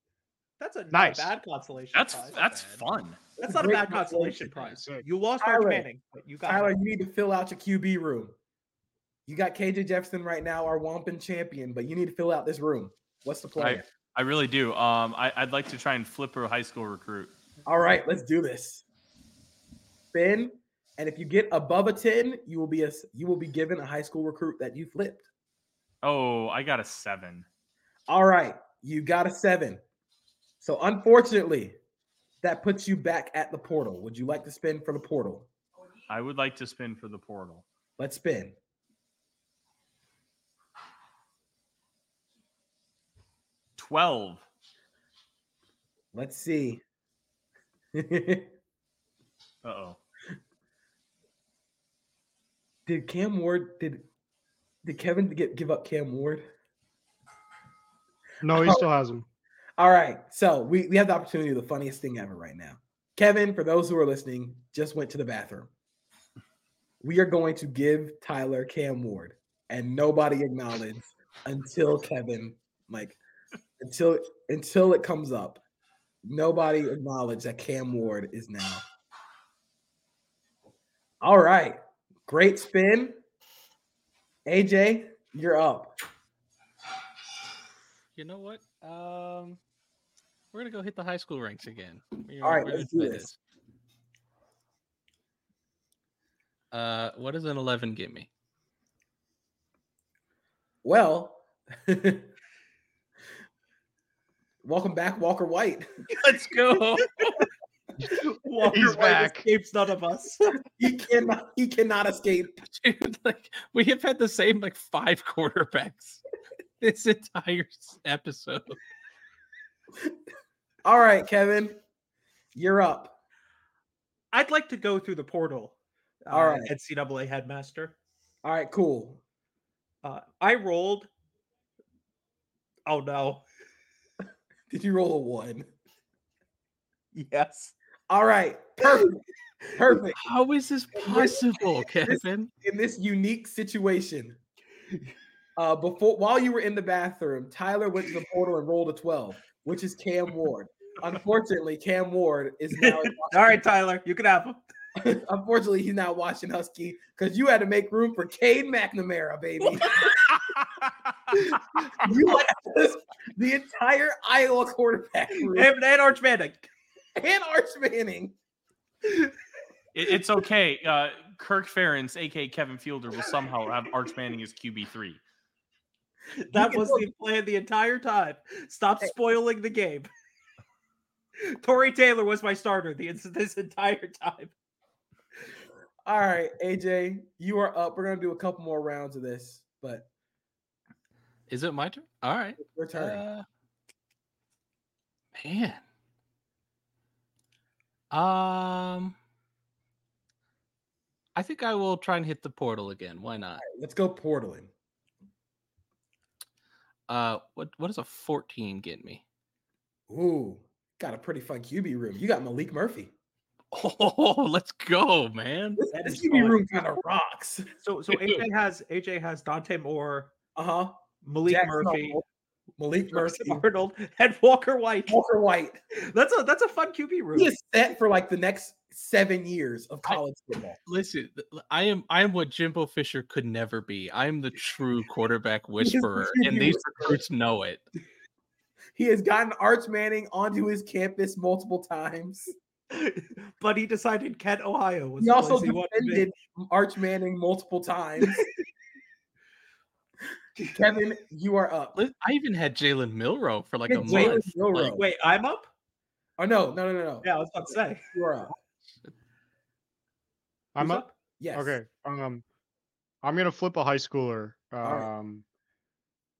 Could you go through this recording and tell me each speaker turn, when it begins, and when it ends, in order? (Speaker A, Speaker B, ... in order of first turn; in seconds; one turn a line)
Speaker A: 0.6-2.7
Speaker B: 0.9-1.3
Speaker C: 1.9-3.3
Speaker D: 3.4-4.5
Speaker A: 3.4-6.7
Speaker B: 4.6-5.0
Speaker D: 5.4-5.9
Speaker D: 6.5-8.3
Speaker D: 9.3-13.8
Speaker C: 13.6-17.3
Speaker D: 17.6-18.8
Speaker D: 20.1-25.2
Speaker C: 26.0-27.4
Speaker D: 28.1-29.8
Speaker D: 30.6-31.8
Speaker D: 32.4-35.5
Speaker C: 36.1-37.6
Speaker D: 38.0-38.5
Speaker C: 43.8-44.4
Speaker D: 46.1-46.8
Speaker D: 47.9-48.5
Speaker C: 49.6-50.0
Speaker D: 52.9-54.0
Speaker D: 54.8-56.4
Speaker B: 58.4-59.2
Speaker D: 58.5-58.8
Speaker D: 59.8-65.7
Speaker D: 67.0-73.2
Speaker D: 73.8-75.6
Speaker D: 76.2-78.8
Speaker D: 81.2-83.2
Speaker D: 84.5-85.9
Speaker E: 88.2-89.6
Speaker E: 90.5-93.4
Speaker D: 92.4-93.3
Speaker E: 96.7-98.3
Speaker D: 100.8-102.3
Speaker D: 104.6-105.9
Speaker E: 106.1-107.5
Speaker A: 108.0-110.6
Speaker B: 108.6-109.5
Speaker D: 110.8-112.6
Speaker E: 112.6-116.2
Speaker E: 116.8-118.8
Speaker D: 120.8-121.8
Speaker D: 122.5-123.1
Speaker A: 124.3-125.7
Speaker A: 126.2-127.9
Speaker D: 126.3-126.7
Speaker D: 128.4-129.2
Speaker A: 130.0-131.1
Speaker A: 132.8-133.4
Speaker D: 134.7-135.7
Speaker A: 137.1-137.7
Speaker D: 138.1-139.2
Speaker A: 138.8-139.1
Speaker D: 139.7-140.2
Speaker E: 140.2-142.5
Speaker D: 140.9-144.4
Speaker D: 145.6-153.6
Speaker A: 152.8-154.6
Speaker D: 155.0-160.4
Speaker A: 159.6-160.1
Speaker D: 161.5-165.7
Speaker A: 165.4-166.7
Speaker D: 167.2-168.3
Speaker C: 169.9-175.2
Speaker A: 176.5-180.1
Speaker D: 176.5-177.1
Speaker A: 181.4-184.5
Speaker D: 186.1-190.1
Speaker E: 191.5-193.4
Speaker D: 192.6-193.2
Speaker E: 195.3-195.8
Speaker E: 198.1-199.2
Speaker E: 201.3-203.6
Speaker D: 203.6-204.7
Speaker E: 207.1-209.2
Speaker D: 210.1-213.1
Speaker E: 213.7-216.6
Speaker D: 215.8-217.7
Speaker A: 217.8-220.3
Speaker E: 218.1-218.4
Speaker D: 220.5-222.2
Speaker A: 221.2-222.2
Speaker D: 222.8-223.6
Speaker A: 223.1-225.2
Speaker D: 225.1-225.8
Speaker A: 225.9-227.5
Speaker D: 227.3-230.8
Speaker E: 230.8-237.8
Speaker D: 235.8-237.2
Speaker D: 238.9-242.5
Speaker A: 242.9-246.2
Speaker D: 245.2-248.5
Speaker D: 250.7-252.0
Speaker E: 251.9-255.0
Speaker D: 253.9-255.0
Speaker A: 254.1-255.7
Speaker D: 256.4-257.3
Speaker A: 257.2-258.1
Speaker D: 258.1-258.5
Speaker A: 260.8-261.1
Speaker B: 260.8-262.4
Speaker D: 261.4-261.8
Speaker B: 263.2-265.4
Speaker D: 264.8-265.1